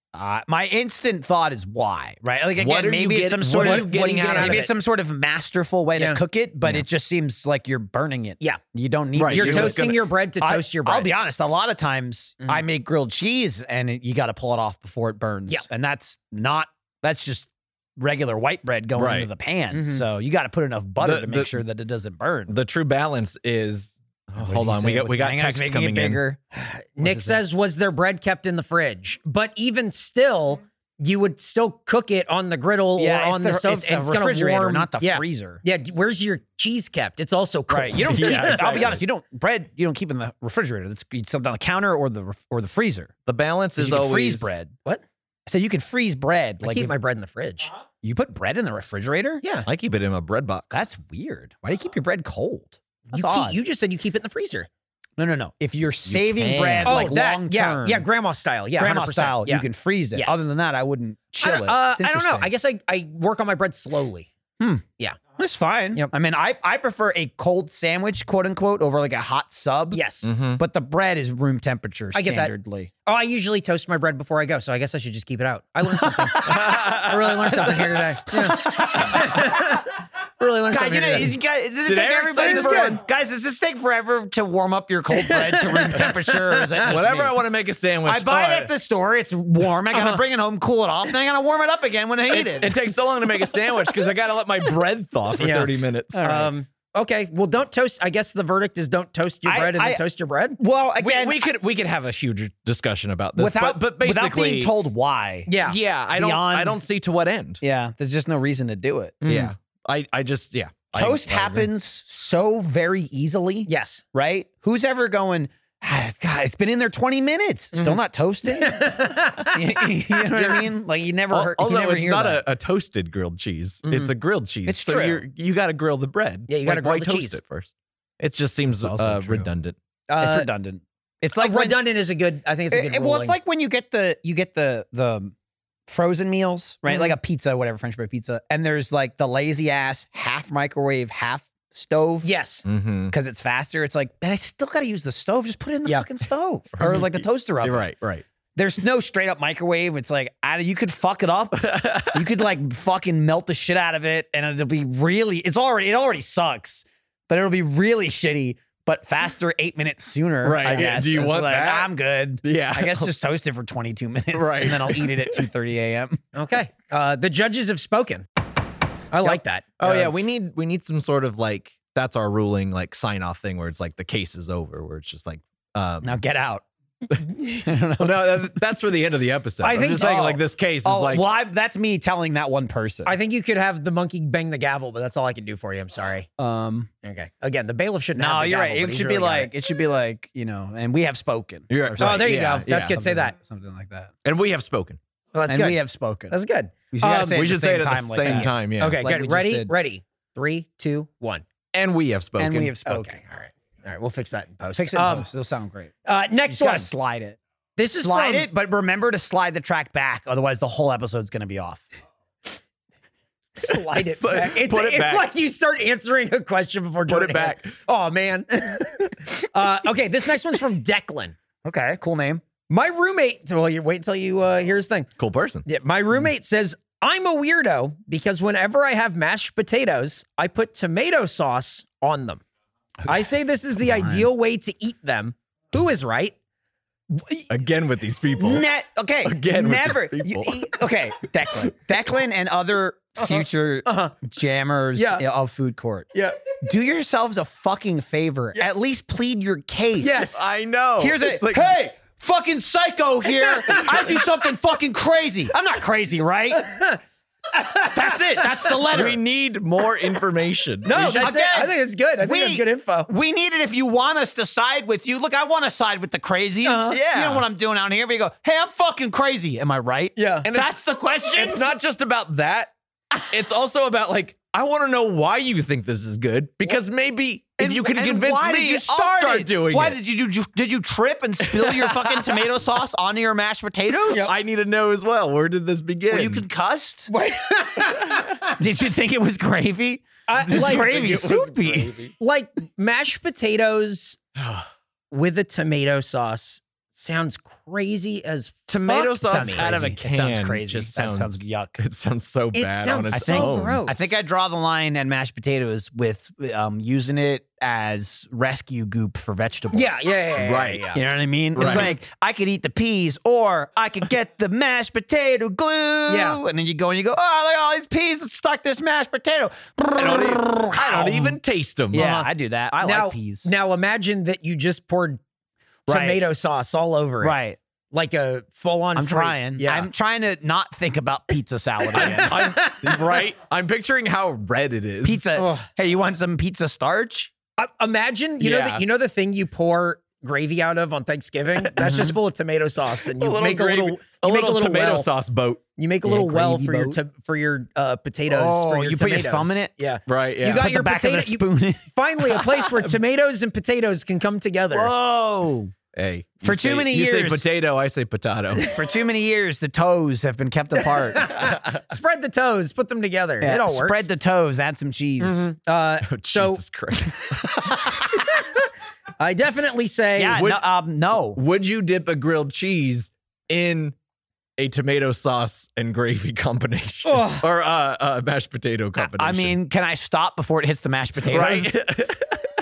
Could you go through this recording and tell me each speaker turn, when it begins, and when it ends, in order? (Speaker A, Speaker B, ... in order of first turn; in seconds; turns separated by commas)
Speaker A: 0.1-22.5, Speaker B: 2.5-4.7, Speaker C: 3.6-4.7, Speaker B: 9.2-10.0, Speaker C: 9.3-11.1, Speaker B: 18.9-19.3, Speaker C: 19.7-20.0, Speaker B: 21.0-21.6, Speaker B: 22.5-26.2, Speaker A: 24.4-26.4, Speaker C: 26.5-39.0, Speaker A: 27.0-27.4, Speaker A: 33.0-35.6, Speaker A: 37.7-43.1, Speaker B: 38.1-39.0, Speaker B: 43.2-44.5, Speaker A: 43.8-44.7, Speaker A: 45.5-46.9, Speaker C: 46.6-47.7, Speaker A: 48.0-49.4, Speaker C: 49.4-49.7, Speaker B: 49.6-50.9, Speaker A: 50.7-53.6, Speaker C: 53.1-54.7, Speaker A: 55.2-58.0, Speaker B: 56.0-57.0, Speaker C: 56.8-60.5, Speaker A: 58.8-62.5, Speaker C: 61.4-64.3, Speaker A: 65.4-70.0, Speaker C: 69.9-70.3, Speaker B: 70.2-70.6, Speaker A: 70.6-72.9, Speaker C: 72.1-72.5, Speaker C: 73.0-79.8, Speaker A: 75.9-77.0, Speaker B: 76.5-77.8, Speaker A: 77.5-79.8, Speaker C: 80.4-81.3, Speaker A: 80.7-87.4, Speaker B: 81.8-83.0, Speaker C: 82.4-83.0, Speaker C: 85.2-86.6, Speaker B: 86.8-88.7, Speaker A: 88.0-92.8, Speaker C: 89.9-90.2, Speaker B: 92.3-96.3, Speaker C: 95.4-100.6, Speaker A: 96.1-96.5, Speaker A: 99.5-100.0, Speaker A: 100.6-101.4, Speaker B: 101.0-104.7, Speaker A: 103.4-105.5, Speaker C: 105.5-105.8, Speaker B: 105.6-107.6, Speaker A: 106.1-106.8, Speaker A: 107.6-109.5, Speaker B: 109.2-111.7, Speaker A: 110.9-122.4, Speaker C: 113.7-114.0, Speaker C: 118.5-120.5, Speaker B: 121.3-129.8, Speaker C: 123.8-124.1, Speaker A: 124.7-125.2, Speaker C: 126.5-127.4, Speaker A: 128.8-129.5, Speaker C: 130.1-130.5, Speaker A: 130.2-131.8, Speaker C: 131.4-133.4, Speaker A: 132.7-135.3, Speaker A: 135.9-142.3, Speaker C: 136.8-137.2, Speaker C: 142.2-142.6, Speaker B: 142.7-143.1, Speaker A: 143.1-147.9, Speaker B: 146.8-148.2, Speaker A: 148.5-166.2, Speaker B: 151.6-152.3, Speaker B: 160.4-163.1, Speaker B: 164.3-165.4, Speaker C: 166.3-168.2, Speaker C: 169.1-170.1, Speaker B: 169.2-176.2, Speaker A: 176.0-176.6, Speaker A: 177.6-178.6, Speaker B: 177.9-181.2, Speaker C: 179.6-180.4, Speaker A: 180.0-180.3, Speaker A: 180.8-183.1, Speaker C: 183.1-186.3, Speaker A: 186.4-186.9, Speaker C: 187.0-189.5, Speaker A: 188.2-194.1, Speaker B: 191.7-193.0, Speaker C: 192.0-193.3, Speaker B: 194.2-195.0, Speaker C: 195.3-197.4, Speaker A: 195.5-196.3, Speaker A: 196.9-199.7, Speaker B: 197.3-199.0, Speaker C: 198.3-201.4, Speaker B: 201.7-202.8, Speaker A: 202.4-203.2, Speaker C: 202.8-205.3, Speaker A: 204.7-205.9, Speaker C: 206.0-206.9, Speaker A: 206.5-207.4, Speaker C: 207.8-208.5, Speaker A: 207.9-211.8, Speaker C: 213.6-221.3, Speaker B: 213.6-215.3, Speaker B: 217.1-217.7, Speaker A: 221.6-222.4, Speaker C: 222.7-225.1, Speaker B: 225.2-225.6, Speaker C: 225.7-232.4, Speaker A: 233.0-233.3, Speaker C: 233.1-236.3, Speaker A: 233.8-234.3, Speaker C: 237.1-237.4, Speaker B: 237.5-238.7, Speaker A: 238.4-246.1, Speaker B: 239.2-240.7, Speaker C: 243.2-244.2, Speaker C: 244.9-245.2, Speaker C: 246.1-246.4, Speaker A: 246.6-250.3, Speaker C: 250.0-250.5, Speaker B: 250.3-251.7, Speaker A: 251.0-256.7, Speaker C: 253.3-254.3, Speaker C: 256.5-257.0, Speaker C: 257.5-259.1, Speaker A: 257.9-259.2, Speaker B: 258.9-261.3, Speaker C: 260.8-263.1, Speaker A: 260.9-271.6, Speaker C: 266.6-267.0, Speaker B: 266.9-267.4, Speaker C: 270.2-270.4, Speaker B: 270.4-270.7, Speaker B: 271.3-272.7, Speaker B: 273.3-280.0, Speaker A: 277.6-284.3, Speaker B: 281.5-282.4, Speaker B: 284.1-286.4, Speaker A: 286.1-287.1, Speaker C: 287.1-288.5, Speaker A: 288.5-292.0, Speaker C: 290.3-291.4, Speaker B: 290.4-292.1, Speaker C: 292.2-294.2, Speaker B: 294.4-294.7, Speaker C: 295.1-299.7, Speaker B: 298.7-303.8, Speaker A: 299.2-301.8, Speaker C: 302.5-304.1, Speaker A: 303.1-310.1, Speaker C: 309.7-311.0, Speaker B: 310.4-310.9, Speaker A: 310.9-321.2, Speaker B: 311.5-311.9, Speaker C: 311.6-311.9, Speaker C: 316.1-316.4, Speaker B: 320.0-322.1, Speaker A: 321.9-323.5, Speaker C: 321.9-325.2, Speaker C: 325.9-327.4, Speaker A: 325.9-326.2, Speaker A: 327.2-327.6, Speaker C: 327.9-329.9, Speaker A: 328.9-332.5, Speaker B: 331.9-335.2, Speaker C: 332.0-333.2, Speaker A: 335.0-337.3, Speaker C: 335.4-335.7, Speaker C: 337.6-345.1, Speaker B: 338.4-338.8, Speaker A: 341.8-342.1, Speaker B: 343.0-345.6, Speaker C: 345.8-354.9, Speaker A: 346.0-347.0, Speaker A: 348.3-349.7, Speaker B: 350.1-350.6, Speaker A: 350.5-352.6, Speaker A: 354.7-355.7, Speaker B: 355.9-358.7, Speaker A: 356.4-357.4, Speaker A: 358.6-361.3, Speaker C: 361.0-364.1, Speaker A: 363.4-365.5, Speaker C: 365.2-366.6, Speaker B: 366.0-367.9, Speaker C: 368.1-368.5, Speaker C: 369.2-370.5, Speaker A: 370.2-371.4, Speaker B: 370.3-370.6, Speaker B: 371.1-373.9, Speaker B: 374.6-379.5, Speaker C: 377.0-377.4, Speaker A: 379.0-382.1, Speaker B: 381.2-382.4